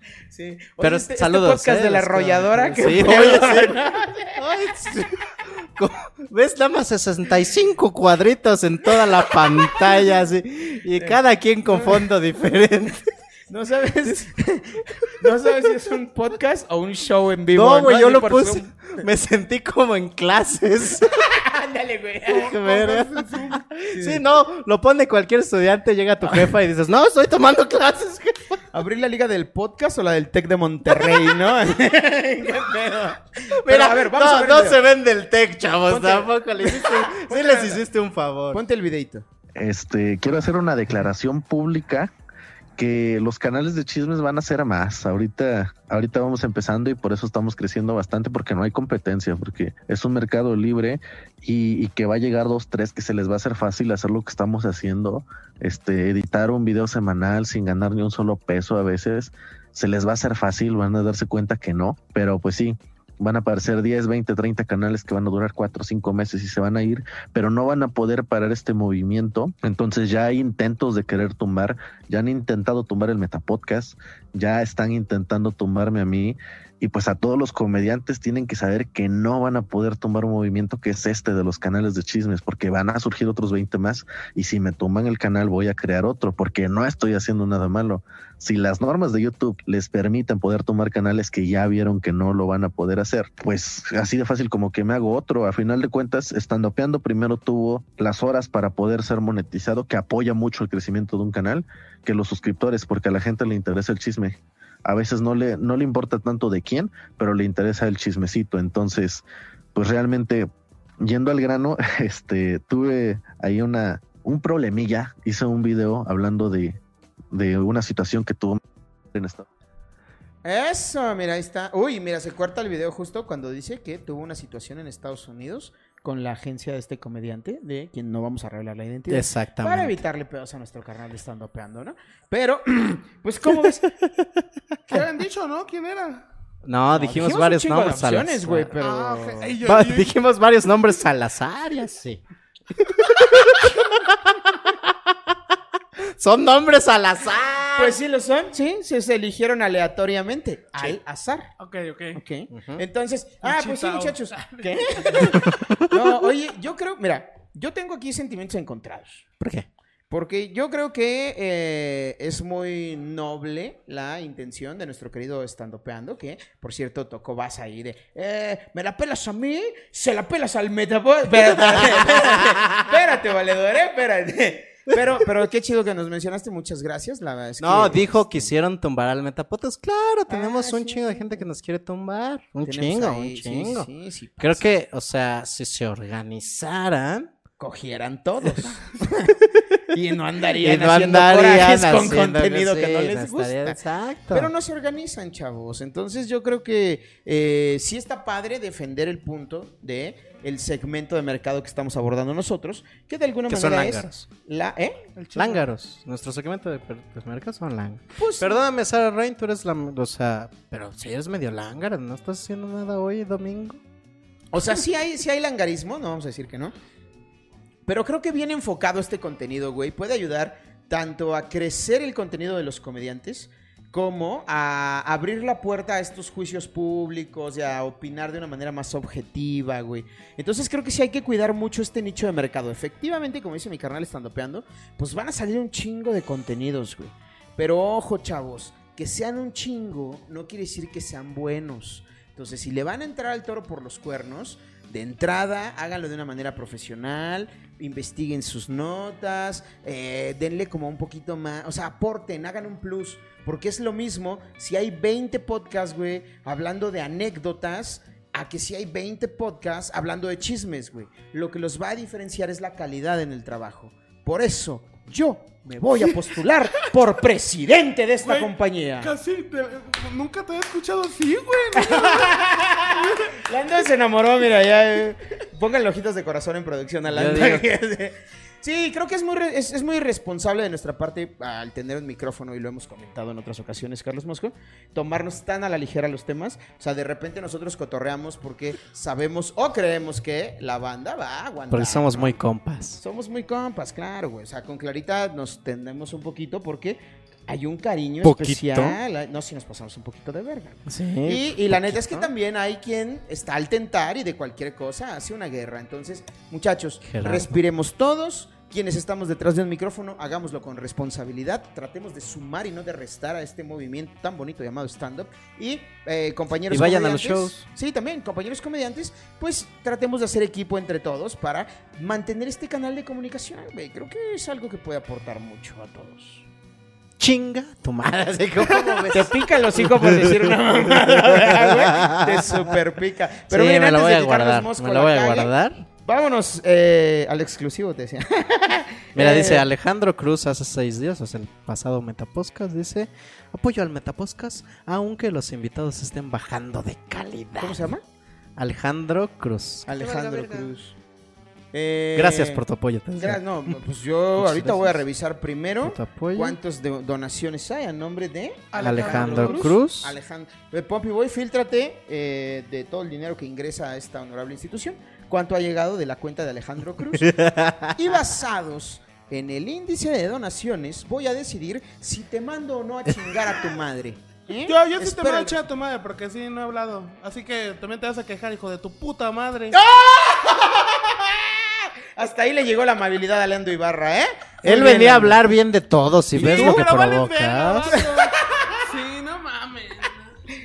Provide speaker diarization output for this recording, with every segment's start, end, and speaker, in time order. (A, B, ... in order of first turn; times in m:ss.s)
0:00.3-0:04.4 A
0:00.8-0:03.8 B
0:04.4-0:13.0 B
0:11.7-0:12.1 A
0:13.5-0:18.7 A
0:17.5-0:21.2 B
0:21.1-0:22.6 A
0:22.3-0:28.6 B
0:22.4-0:23.6 C
0:23.9-0:24.2 A
0:26.2-0:26.5 A
0:28.7-0:34.8 A
0:33.5-0:38.6 B
0:35.9-0:37.8 A
0:38.5-0:39.2 A
0:39.6-0:42.1 D
0:42.8-1:49.2 D
1:49.8-1:50.5 D
1:51.0-1:56.8 D
1:57.3-1:58.6 D
1:59.1-1:59.4 D
2:00.4-2:13.9 A
2:09.1-2:10.0 B
2:14.9-2:16.3 C
2:16.6-2:18.7 B
2:16.9-2:19.6 A
2:18.8-2:20.1 C
2:19.6-2:22.2 B
2:22.8-2:24.3 B
2:26.2-2:28.0 B
2:27.8-2:31.5 A
2:31.6-2:32.2 C
2:32.2-2:39.3 A
2:32.5-2:32.8 B
2:33.4-2:35.3 C
2:35.5-2:35.8 B
2:39.4-2:39.7 B
2:40.1-2:58.5 A
2:51.8-2:52.6 B
2:57.6-3:03.9 B
3:00.3-3:01.5 A
3:02.6-3:04.7 A
3:04.4-3:07.3 B
3:07.6-3:09.4 A
3:09.9-3:13.8 A
3:10.6-3:14.5 B
3:14.3-3:25.0 A
3:23.5-3:24.3 B
3:25.2-3:25.7 C
3:25.4-3:33.8 B
3:28.2-3:28.6 A
3:34.5-3:36.8 A
3:37.9-4:29.2 A
4:28.2-4:32.4 C
4:31.8-4:52.4 A
4:33.0-4:33.4 C
4:37.1-4:37.8 B
4:51.7-4:53.0 B
4:53.0-5:26.5 A
4:58.2-4:59.0 B
5:00.9-5:02.3 B
5:07.0-5:07.6 B
5:16.7-5:17.7 B
5:27.2-5:32.6 B
5:28.6-5:35.5 A
5:33.5-5:35.9 B
5:36.0-5:39.6 A
5:39.2-5:47.9 B
5:47.6-5:48.0 A
5:48.6-5:50.5 B
5:49.9-5:51.0 A
5:50.2-5:50.5 C
5:51.7-5:52.6 A
5:52.1-5:53.8 B
5:53.2-6:07.4 A
5:54.4-5:55.0 B
5:55.8-5:56.6 B
5:58.7-5:59.8 C
5:58.8-6:00.2 B
6:07.2-6:07.9 B
6:08.0-6:15.6 A
6:14.7-6:19.8 C
6:19.7-6:25.4 A
6:24.6-6:28.0 B
6:26.3-6:30.3 C
6:26.4-6:26.9 A
6:27.9-6:28.3 A